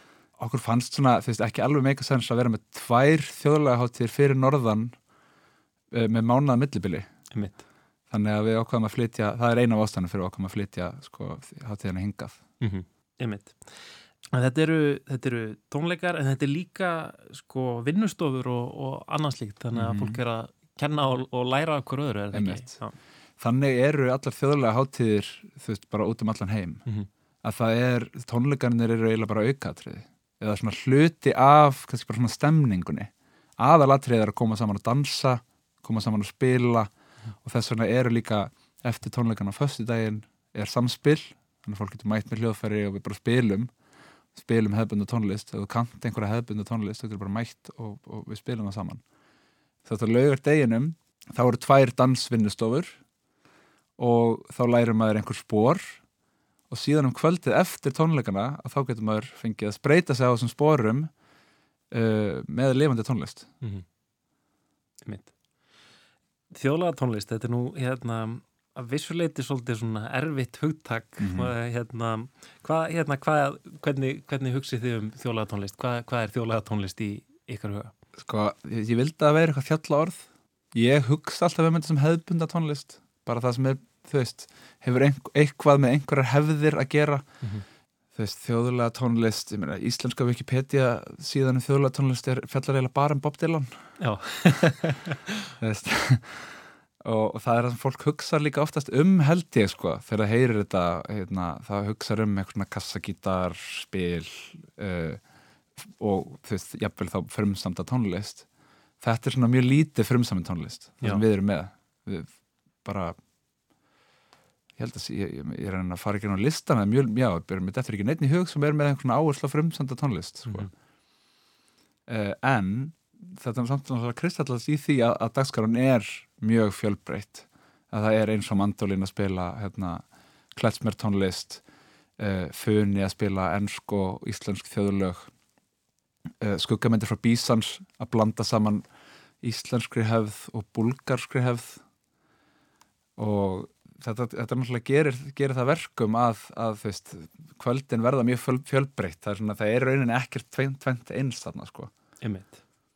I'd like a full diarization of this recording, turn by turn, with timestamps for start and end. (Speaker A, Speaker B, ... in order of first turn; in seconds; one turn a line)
Speaker A: 0.4-4.9
Speaker A: 5.9-7.1
Speaker B: 7.3-7.6
Speaker A: 8.1-12.4
Speaker B: 12.6-13.8
Speaker B: 14.3-22.9
Speaker A: 19.7-20.2
Speaker A: 22.3-22.8
Speaker A: 23.4-26.8
Speaker A: 27.4-36.9
Speaker A: 37.4-43.7
Speaker A: 44.3-49.0
Speaker A: 49.8-53.0
Speaker A: 54.0-56.0
Speaker A: 56.7-61.1
Speaker A: 61.9-63.5
Speaker B: 65.0-65.3
Speaker B: 66.5-77.9
Speaker A: 71.2-71.5
Speaker A: 78.2-87.2
Speaker A: 88.1-93.8
Speaker B: 94.0-95.3
Speaker A: 95.6-105.2
Speaker A: 105.8-108.5
Speaker A: 109.0-112.3
Speaker A: 112.8-113.1
Speaker A: 114.8-120.7
Speaker A: 122.1-130.0
Speaker A: 130.5-131.6
Speaker A: 132.2-135.3
Speaker A: 136.4-138.8
Speaker A: 139.4-141.8
Speaker A: 143.2-151.9
Speaker B: 152.2-152.6